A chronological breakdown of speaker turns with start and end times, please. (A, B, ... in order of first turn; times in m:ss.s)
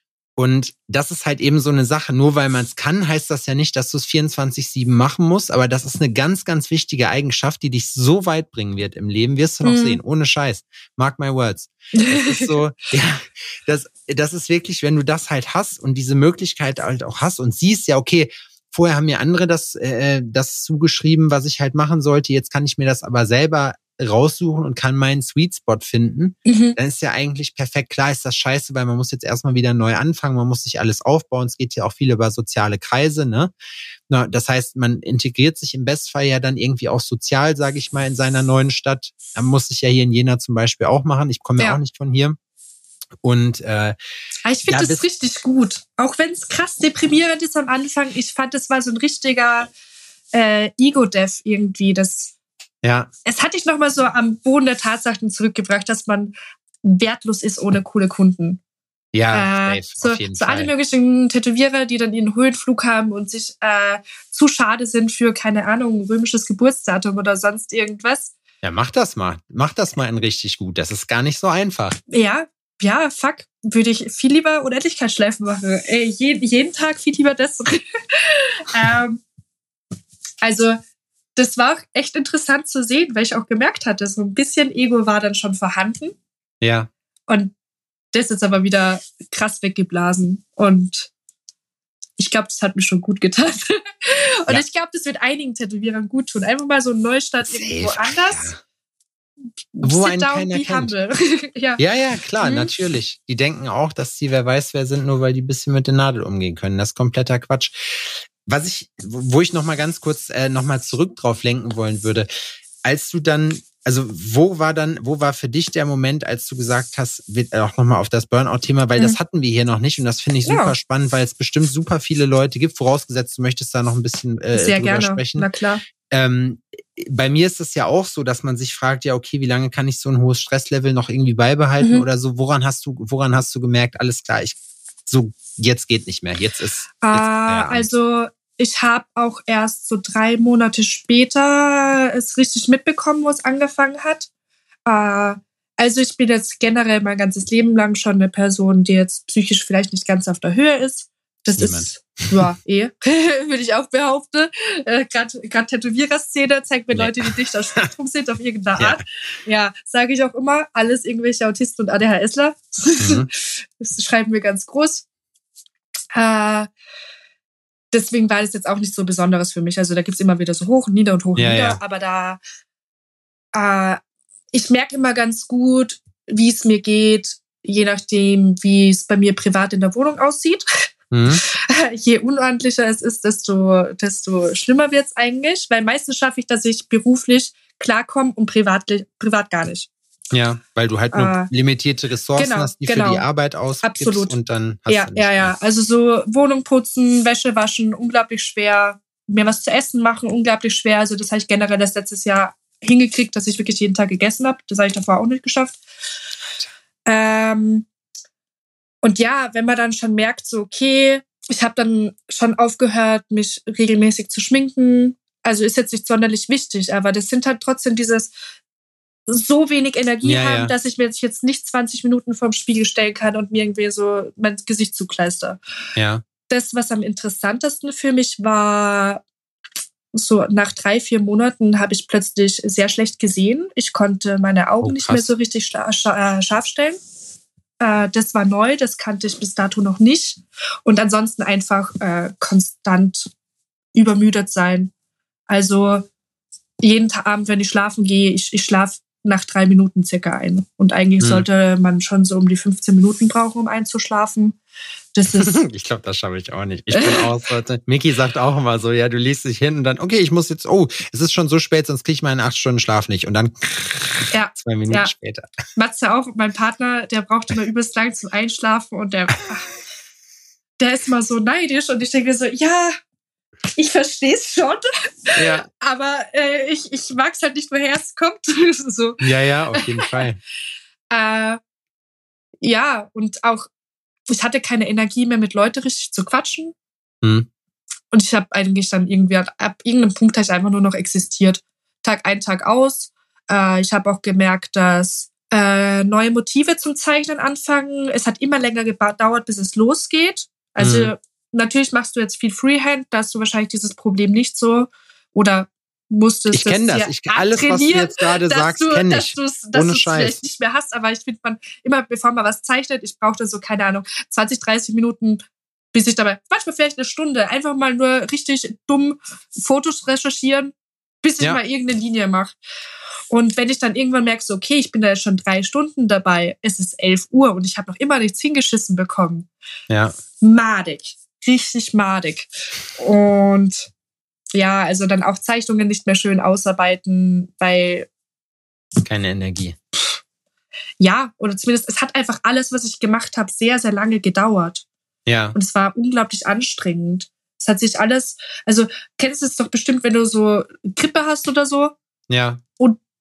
0:00.4-0:33.5 A
0:09.6-0:10.0 B
0:11.9-0:12.6 B
0:26.4-0:26.8 B
0:34.1-0:42.4 A
0:43.2-0:44.0 A
0:44.4-0:49.7 B
0:44.7-0:45.0 A
0:50.3-0:52.3 B
0:52.8-0:53.1 A
0:53.2-0:58.6 B
0:59.1-1:00.7 A
0:59.3-1:08.3 B
1:08.6-1:12.0 A
1:12.1-1:19.2 B
1:20.4-1:20.8 B
1:21.4-1:26.1 B
1:26.6-1:26.9 A
1:27.3-1:27.5 B
1:28.1-1:31.1 B
1:32.2-1:38.5 B
1:37.4-1:38.6 A
1:39.7-1:41.8 B
1:39.8-1:40.9 A
1:41.8-1:52.3 A
1:42.4-1:42.7 B
1:52.8-2:05.5 A
2:00.4-2:00.8 B
2:04.5-2:05.8 B
2:06.1-2:17.9 A
2:11.8-2:12.0 B
2:17.0-2:24.3 B
2:24.9-2:43.3 B
2:31.6-2:32.3 A
2:36.9-2:37.2 A
2:43.0-2:43.3 A
2:43.8-2:45.0 B
2:46.1-2:46.7 B
2:47.9-2:52.4 B
2:51.4-2:51.8 A
2:53.5-2:54.0 B
2:54.5-3:09.9 B
3:01.1-3:01.4 A
3:10.3-3:15.5 A
3:11.1-3:11.5 B
3:12.4-3:13.2 B
3:13.8-3:14.4 B
3:14.9-3:25.8 B
3:27.1-3:27.9 B
3:29.0-3:38.3 B
3:39.3-3:45.6 B
3:40.2-3:40.7 A
3:46.0-3:46.2 A
3:46.5-3:49.2 B
3:50.1-3:57.0 B
3:54.8-3:55.3 A
3:57.8-4:03.3 B
4:03.9-4:04.9 B
4:05.5-4:06.1 B
4:06.8-4:14.6 B
4:11.2-4:11.4 A
4:15.1-4:15.6 B
4:15.3-4:25.5 A
4:16.9-4:17.3 B
4:24.3-4:25.1 B
4:25.8-4:29.7 B
4:30.8-4:32.9 B
4:33.8-4:40.2 B
4:35.3-4:35.7 A
4:39.2-4:40.4 A
4:41.1-4:41.6 B
4:42.6-4:43.7 B
4:44.3-4:46.7 B
4:47.2-4:47.5 A
4:48.1-5:15.4 B
5:00.8-5:01.1 A
5:06.5-5:10.4 A
5:15.9-5:22.6 B
5:23.3-5:29.5 B
5:29.9-5:30.1 A
5:30.4-5:33.9 B
5:34.5-5:38.1 B
5:39.0-5:39.8 A
5:41.0-5:44.8 B
5:45.3-5:45.6 A
5:45.5-5:51.9 B
5:52.3-5:52.6 A